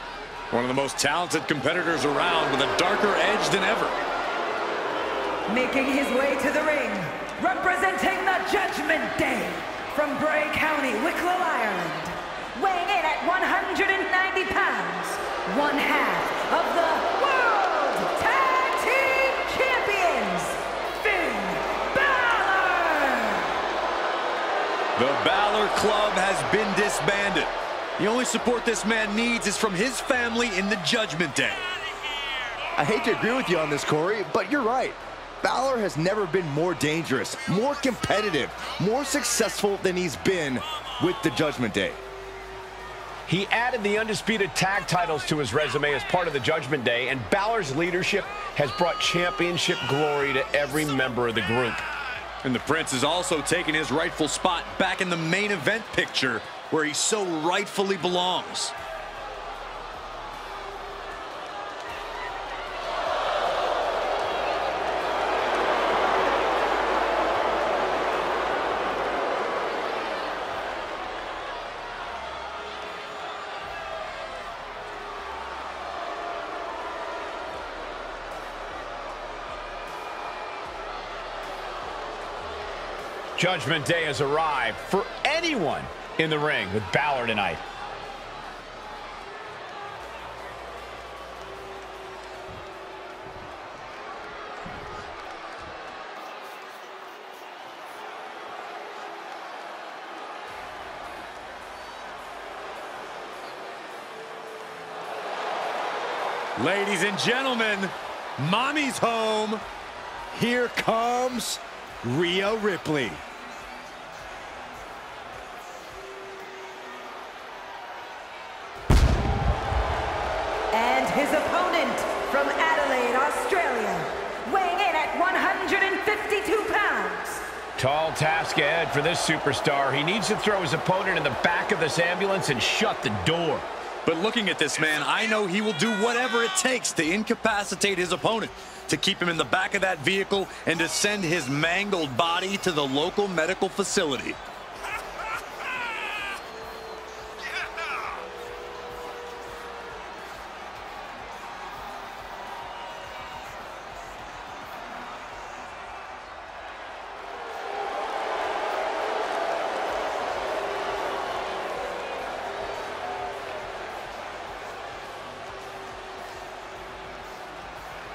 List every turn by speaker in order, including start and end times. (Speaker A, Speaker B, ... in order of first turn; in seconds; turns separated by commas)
Speaker A: 0.5-4.0, Speaker B: 5.5-23.6, Speaker A: 25.0-31.6, Speaker C: 32.8-42.0, Speaker D: 43.3-51.9, Speaker A: 52.4-58.7, Speaker D: 83.4-87.6, Speaker A: 106.6-109.6, Speaker C: 110.3-113.2, Speaker B: 120.7-127.4, Speaker D: 127.8-133.7, Speaker A: 134.1-144.4